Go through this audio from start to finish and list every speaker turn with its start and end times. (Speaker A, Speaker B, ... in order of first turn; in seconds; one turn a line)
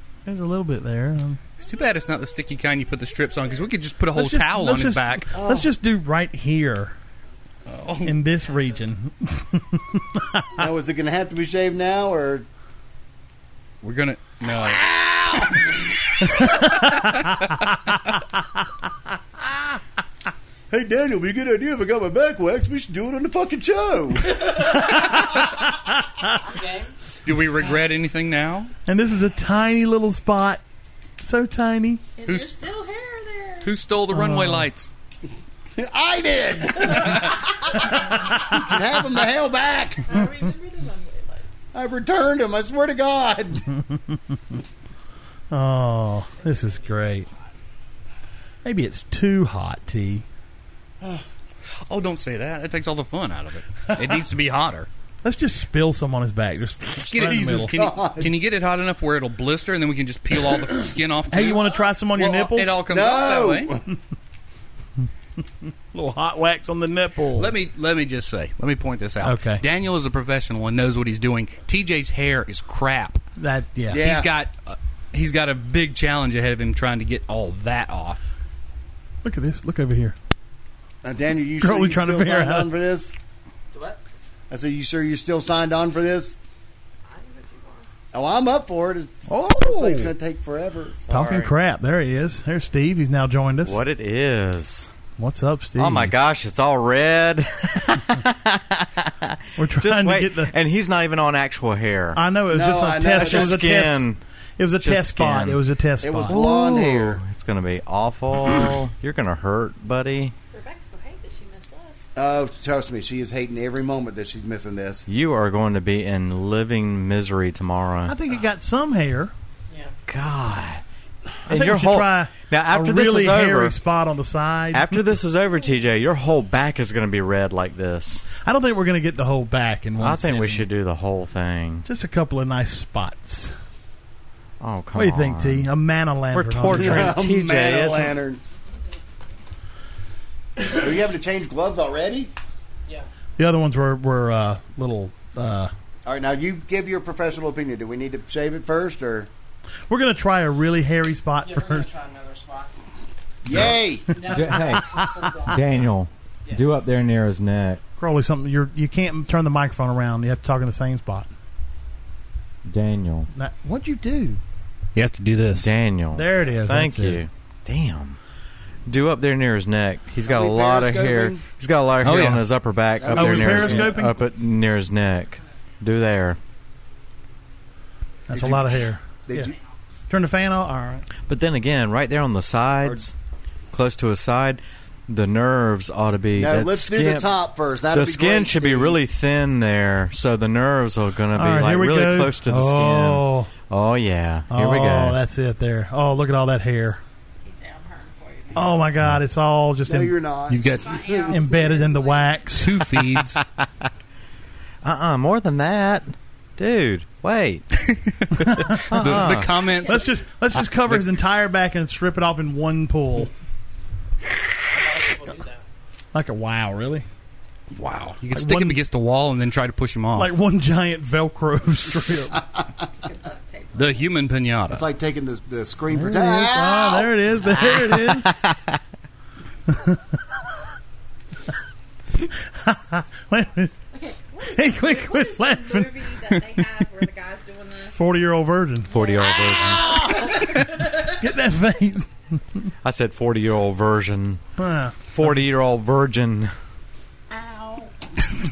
Speaker A: 0.3-1.4
Speaker B: 1.6-5.3
Speaker C: 3.3-3.7
Speaker A: 4.2-7.0
Speaker D: 5.3-5.7
Speaker B: 7.7-8.2
Speaker A: 8.0-10.6
Speaker D: 10.6-12.5
Speaker B: 13.8-14.9
Speaker D: 14.4-15.8
Speaker A: 16.3-17.5
Speaker B: 16.7-17.0
Speaker D: 20.7-24.6
Speaker A: 24.7-25.1
Speaker E: 26.4-26.9
Speaker B: 27.2-28.7
Speaker A: 28.9-30.6
Speaker A: 31.2-32.0
Speaker C: 32.2-33.7
Speaker B: 32.2-32.5
Speaker B: 33.6-34.9
Speaker A: 34.1-34.7
Speaker D: 35.8-40.1
Speaker C: 37.0-37.2
Speaker C: 40.0-41.5
Speaker D: 41.7-43.7
Speaker A: 45.5-47.3
Speaker E: 46.4-47.5
Speaker A: 48.6-50.2
Speaker B: 51.7-54.9
Speaker A: 55.2-57.7
Speaker B: 57.0-63.7
Speaker D: 57.7-58.4
Speaker A: 61.3-62.8
Speaker D: 62.9-63.9
Speaker A: 65.9-67.6
Speaker B: 67.4-73.2
Speaker A: 69.2-69.6
Speaker A: 73.4-74.0
Speaker D: 73.9-74.3
Speaker B: 73.9-78.2
Speaker A: 79.2-80.2
Speaker D: 81.0-83.1
Speaker A: 81.6-82.7
Speaker E: 83.7-84.0
Speaker D: 84.5-86.4
Speaker E: 87.1-87.9
Speaker D: 88.1-91.0
Speaker A: 89.3-90.1
Speaker F: 91.1-91.5
Speaker A: 91.1-93.8
Speaker F: 93.7-94.9
Speaker A: 95.2-96.1
Speaker F: 95.8-102.2
Speaker A: 99.6-100.5
Speaker A: 102.2-106.5
Speaker D: 102.5-103.7
Speaker F: 103.1-104.2
Speaker F: 104.8-105.6
Speaker D: 106.0-107.2
Speaker F: 106.3-110.3
Speaker C: 110.5-112.0
Speaker D: 112.2-115.1
Speaker F: 115.1-118.2
Speaker A: 118.1-119.3
Speaker E: 119.7-120.0
Speaker F: 120.1-120.8
Speaker F: 121.5-123.8
Speaker A: 121.5-125.0
Speaker F: 124.7-128.3
Speaker A: 128.4-130.7
Speaker F: 130.0-131.9
Speaker A: 131.9-133.6
Speaker F: 134.6-135.7
Speaker A: 134.9-137.2
Speaker F: 136.3-138.2
Speaker D: 136.7-138.4
Speaker D: 140.6-142.3
Speaker A: 143.4-145.7
Speaker D: 146.1-149.3
Speaker A: 149.9-151.9
Speaker E: 151.4-152.8
Speaker D: 153.4-154.1
Speaker A: 153.6-154.1
Speaker E: 154.1-155.7
Speaker F: 154.2-157.8
Speaker A: 154.8-155.1
Speaker A: 158.0-161.3
Speaker F: 162.7-163.3
Speaker A: 163.3-164.4
Speaker B: 164.9-165.7
Speaker F: 165.6-168.2
Speaker A: 166.1-167.2
Speaker F: 168.9-176.4
Speaker D: 170.2-171.4
Speaker B: 172.0-172.5
Speaker D: 173.0-174.0
Speaker A: 173.1-174.2
Speaker A: 178.3-179.5
Speaker D: 178.4-178.6
Speaker C: 178.4-179.0
Speaker D: 179.3-179.5
Speaker A: 180.1-181.1
Speaker F: 181.3-183.1
Speaker F: 183.7-187.3
Speaker D: 186.3-189.0
Speaker F: 187.9-195.2
Speaker A: 191.3-193.5
Speaker A: 194.5-197.0
Speaker C: 197.4-198.8
Speaker A: 198.5-200.2
Speaker D: 199.9-201.8
Speaker B: 200.5-201.0
Speaker C: 200.6-202.5
Speaker A: 201.3-202.8
Speaker B: 202.6-203.4
Speaker F: 204.8-207.7
Speaker B: 207.8-210.1
Speaker A: 208.4-213.3
Speaker F: 208.9-209.5
Speaker C: 209.4-210.1
Speaker E: 214.7-215.7
Speaker A: 216.1-217.1
Speaker B: 217.7-220.3
Speaker A: 218.3-218.8
Speaker A: 220.2-222.4
Speaker C: 223.0-224.1
Speaker B: 223.8-224.9
Speaker D: 224.7-227.1
Speaker A: 225.9-228.4
Speaker F: 227.8-228.5
Speaker A: 229.7-230.2
Speaker A: 232.4-233.7
Speaker C: 233.9-238.1
Speaker A: 234.5-236.7
Speaker A: 238.0-238.9
Speaker C: 238.9-241.2
Speaker F: 238.9-239.9
Speaker D: 239.5-240.5
Speaker A: 241.0-242.7
Speaker F: 242.8-244.4
Speaker A: 244.6-245.1
Speaker F: 245.1-246.5
Speaker C: 247.3-247.9